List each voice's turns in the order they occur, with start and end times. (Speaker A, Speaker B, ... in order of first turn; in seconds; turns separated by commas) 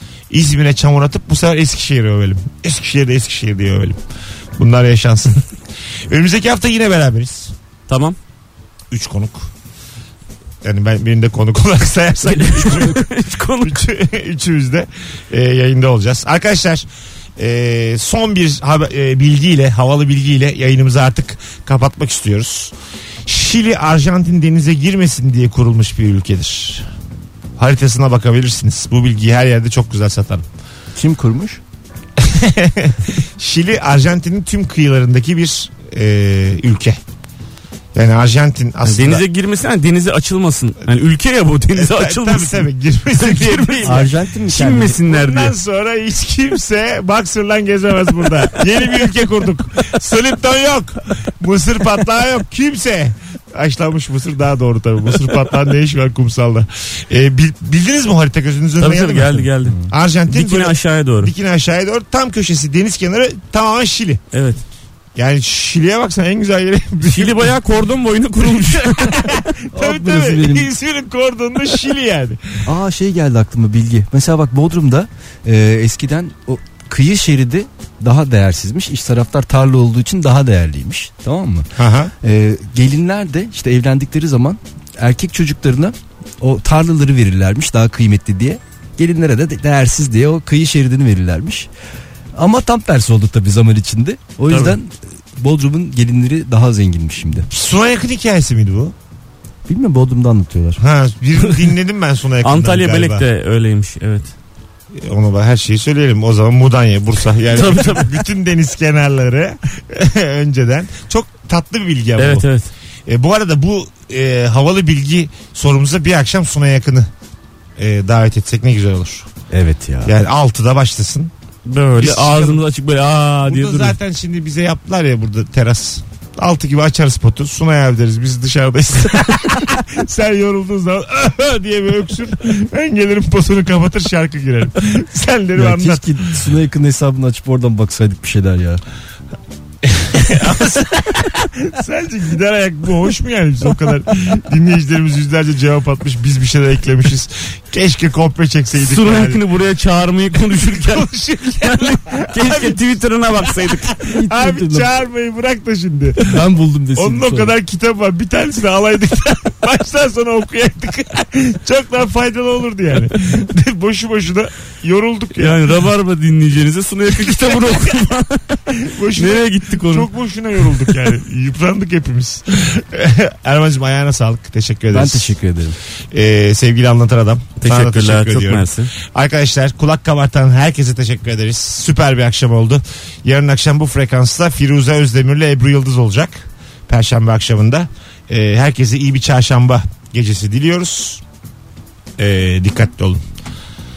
Speaker A: 0.3-4.0, Speaker A: 4.6-5.5, Speaker A: 6.1-7.5, Speaker B: 7.9-8.2, Speaker A: 8.9-9.5, Speaker A: 10.6-13.0, Speaker B: 12.4-13.8, Speaker A: 13.6-22.7, Speaker A: 23.3-26.9, Speaker A: 27.6-30.5, Speaker C: 31.0-31.6, Speaker A: 32.2-37.0, Speaker A: 37.9-39.2, Speaker B: 38.8-45.5, Speaker A: 41.7-44.1, Speaker C: 43.8-45.0, Speaker A: 45.0-64.2, Speaker B: 58.8-59.8, Speaker C: 59.6-59.9, Speaker B: 60.3-61.3, Speaker B: 64.3-64.6, Speaker A: 65.2-67.6, Speaker B: 67.1-69.3, Speaker A: 68.5-72.6, Speaker C: 69.7-70.7, Speaker C: 72.7-81.7, Speaker A: 81.8-82.1, Speaker C: 82.2-91.7, Speaker C: 92.4-97.5, Speaker B: 94.5-94.8, Speaker A: 97.5-99.0, Speaker C: 99.7-100.8, Speaker A: 100.8-103.2, Speaker B: 102.4-104.3, Speaker A: 104.9-112.5, Speaker B: 107.5-108.1, Speaker B: 112.2-112.7, Speaker A: 113.1-117.1, Speaker A: 117.8-119.3, Speaker C: 119.5-120.2, Speaker A: 120.0-121.3, Speaker B: 121.7-124.0, Speaker A: 122.0-122.6, Speaker A: 123.5-136.2, Speaker C: 135.6-138.8, Speaker A: 139.8-149.4, Speaker B: 148.8-153.9, Speaker A: 150.4-152.8, Speaker A: 153.4-165.8, Speaker C: 154.0-154.9, Speaker C: 156.2-157.5, Speaker B: 165.3-170.1, Speaker A: 167.3-167.9, Speaker A: 168.7-175.4, Speaker B: 170.6-171.0, Speaker C: 174.9-175.8, Speaker A: 176.1-191.2, Speaker B: 177.6-178.9, Speaker A: 192.2-193.2